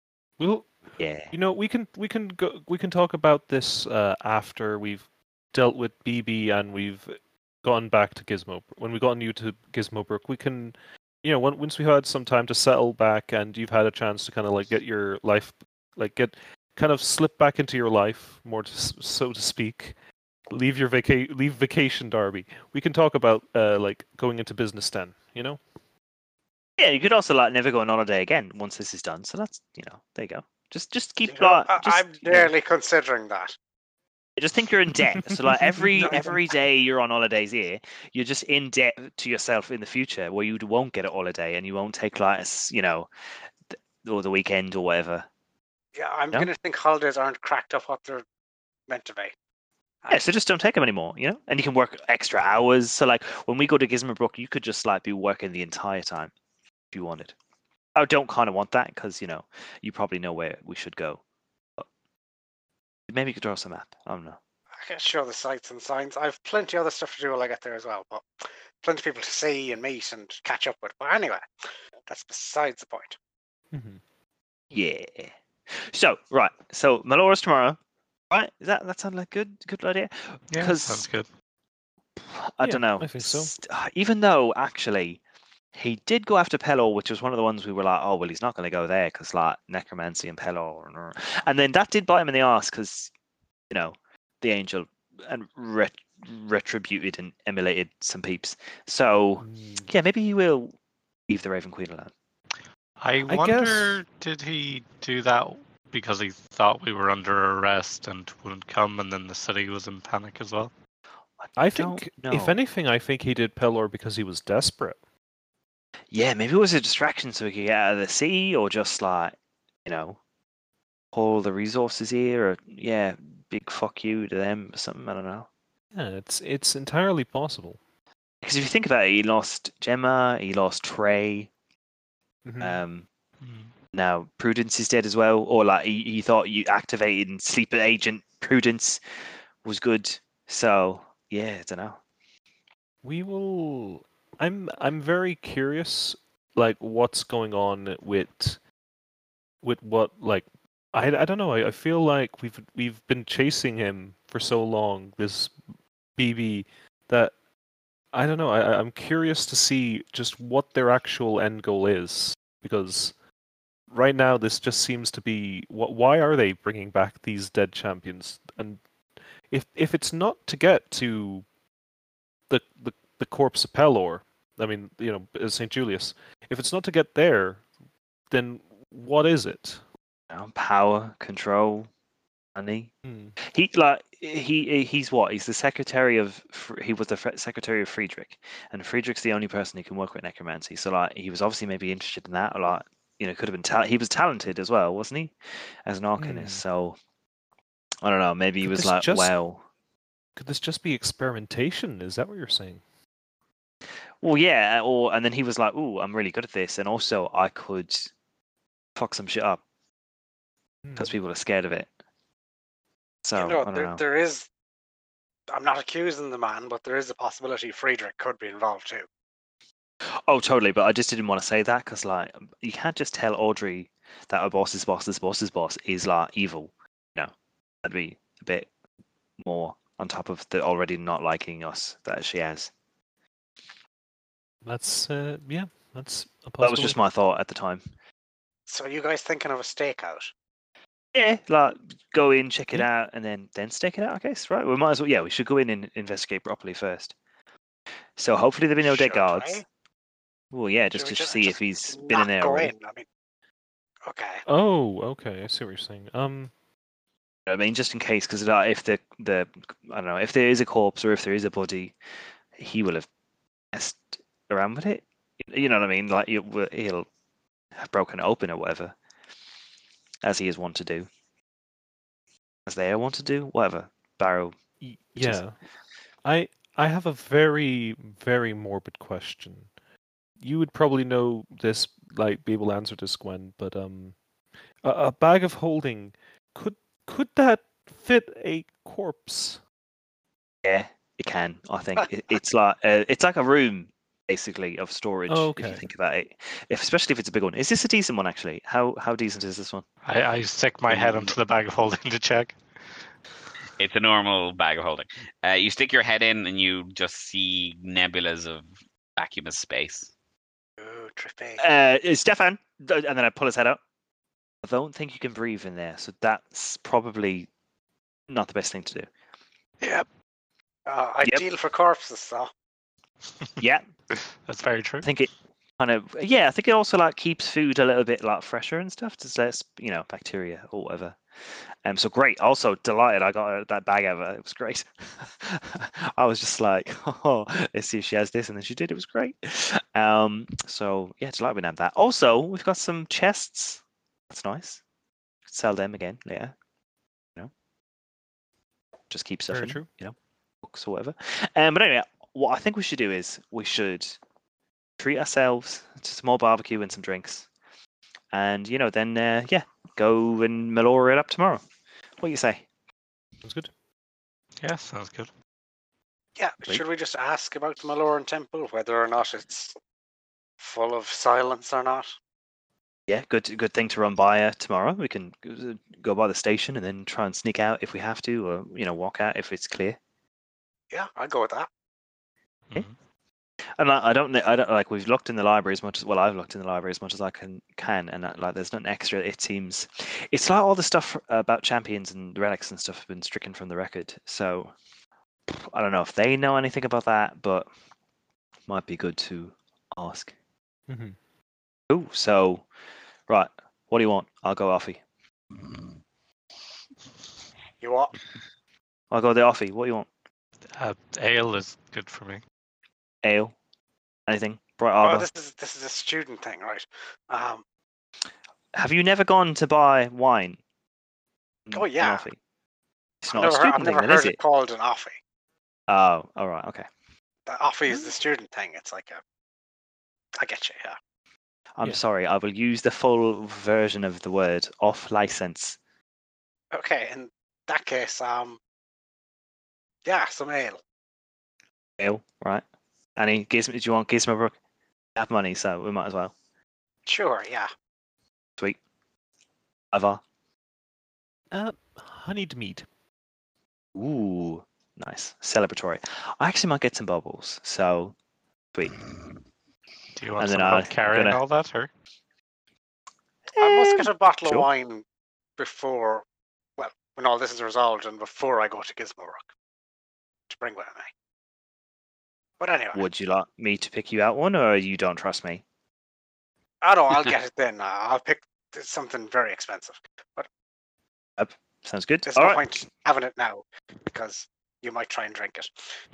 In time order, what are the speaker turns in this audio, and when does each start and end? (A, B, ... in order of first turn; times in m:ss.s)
0:00.4-0:19.9 A
0:01.0-0:01.3 B
0:20.5-0:25.6 A
0:26.8-0:32.5 B
0:31.3-0:33.5 C
0:34.4-0:43.1 B
0:35.6-0:36.2 A
0:36.0-0:36.4 C
0:44.0-0:45.3 B
0:46.0-0:48.2 C
0:48.9-0:49.3 C
0:50.1-0:56.3 B
0:56.9-0:57.3 B
0:57.9-1:01.2 B
1:03.1-1:04.4 B
1:04.8-1:11.5 C
1:12.0-1:13.2 C
1:13.7-1:14.0 A
1:14.7-1:17.8 B
1:18.3-1:21.1 B
1:20.5-1:21.3 D
1:22.2-1:25.2 B
1:22.6-1:23.5 A
1:25.7-1:33.1 B
1:33.7-1:40.7 B
1:39.4-1:39.9 A
1:41.3-1:42.1 B
1:43.0-1:50.7 D
1:43.3-1:44.0 A
1:51.4-1:52.6 B
1:51.6-1:55.0 A
1:56.1-2:00.2 B
2:01.1-2:05.5 B
2:05.9-2:07.8 A
2:08.4-2:11.5 B
2:12.4-2:12.8 A
2:12.6-2:13.1 B
2:13.4-2:13.7 D
2:13.9-2:19.0 B
2:19.6-2:22.0 B
2:23.0-2:28.6 A
2:29.6-2:35.6 A
2:36.2-2:37.3 A
2:38.1-2:43.1 A
2:43.9-2:48.8 A
2:49.5-2:51.4 A
2:52.5-2:57.7 A
2:58.3-2:59.8 A
3:00.3-3:01.9 B
3:02.5-3:17.0 B
3:03.0-3:03.4 A
3:16.2-3:16.6 A
3:18.0-3:19.6 B
3:18.6-3:19.3 A
3:20.4-3:22.8 A
3:24.2-3:28.1 B
3:29.0-3:29.6 B
3:30.8-3:31.1 A
3:30.9-3:31.9 B
3:33.2-3:34.0 B
3:33.3-3:34.5 C
3:35.5-3:39.1 C
3:40.1-3:48.7 B
3:49.4-3:52.7 B
3:54.6-3:57.0 A
3:56.6-3:57.8 B
3:58.7-4:00.3 C
4:01.1-4:07.1 B
4:08.2-4:09.6 B
4:08.8-4:09.6 C
4:10.5-4:12.7 B
4:10.9-4:13.0 C
4:14.0-4:14.4 C
4:14.5-4:16.5 A
4:17.4-4:21.9 B
4:22.5-4:23.1 B
4:23.7-4:27.1 B
4:27.7-4:28.9 B
4:30.2-4:31.1 B
4:32.6-4:34.6 B
4:34.8-4:35.6 A
4:35.1-4:35.4 B
4:36.2-4:39.7 A
4:40.4-4:44.2 A
4:44.8-4:49.6 A
4:50.6-4:59.8 B
4:55.3-4:55.8 A
5:00.0-5:02.6 D
5:03.8-5:10.1 E
5:10.8-5:11.6 C
5:11.6-5:13.8 B
5:14.6-5:17.5 B
5:18.3-5:19.1 B
5:19.8-5:20.0 D
5:20.8-5:22.5 C
5:23.6-5:23.8 B
5:24.1-5:25.1 D
5:25.0-5:44.8 B
5:45.5-5:46.5 B
5:49.1-5:54.2 B
5:49.5-5:49.9 A
5:55.0-5:57.5 B
5:58.3-6:01.6 B
6:02.2-6:02.6 B
6:03.4-6:03.7 A
6:04.6-6:05.3 D
6:06.4-6:09.7 C
6:10.6-6:12.1 C
6:13.1-6:20.0 B
6:20.9-6:21.7 C
6:22.7-6:23.0 D
6:23.8-6:34.7 B
6:35.5-6:37.7 B
6:38.7-6:40.3 B
6:40.9-6:41.2 A
6:41.9-6:42.6 B
6:43.3-6:45.0 B
6:47.8-6:48.1 C
6:49.1-6:50.1 B
6:50.7-6:52.4 D
6:53.2-6:53.5 B
6:54.3-6:55.3 B
6:55.0-6:57.6 C
6:58.7-7:00.6 B
7:01.7-7:02.4 B
7:01.7-7:02.2 C
7:03.2-7:04.4 B
7:03.3-7:05.2 C
7:05.9-7:06.8 B
7:07.5-7:09.2 C
7:10.4-7:11.0 C
7:11.7-7:15.8 B
7:16.7-7:18.6 C
7:20.0-7:20.8 C
7:22.0-7:22.6 B
7:23.2-7:24.6 B
7:25.2-7:26.3 B
7:27.0-7:27.7 C
7:29.9-7:30.2 B
7:31.5-7:32.9 A
7:33.9-7:38.1 B
7:40.2-7:41.9 D
7:40.4-7:41.4 B
7:43.6-7:44.7 B
7:43.6-7:45.0 C
7:45.6-7:46.2 C
7:46.8-7:49.5 C
7:50.5-7:51.1 C
7:52.6-7:53.0 C
7:52.9-7:55.6 B
7:56.8-8:00.5 C
8:01.4-8:02.7 B
8:02.2-8:05.7 C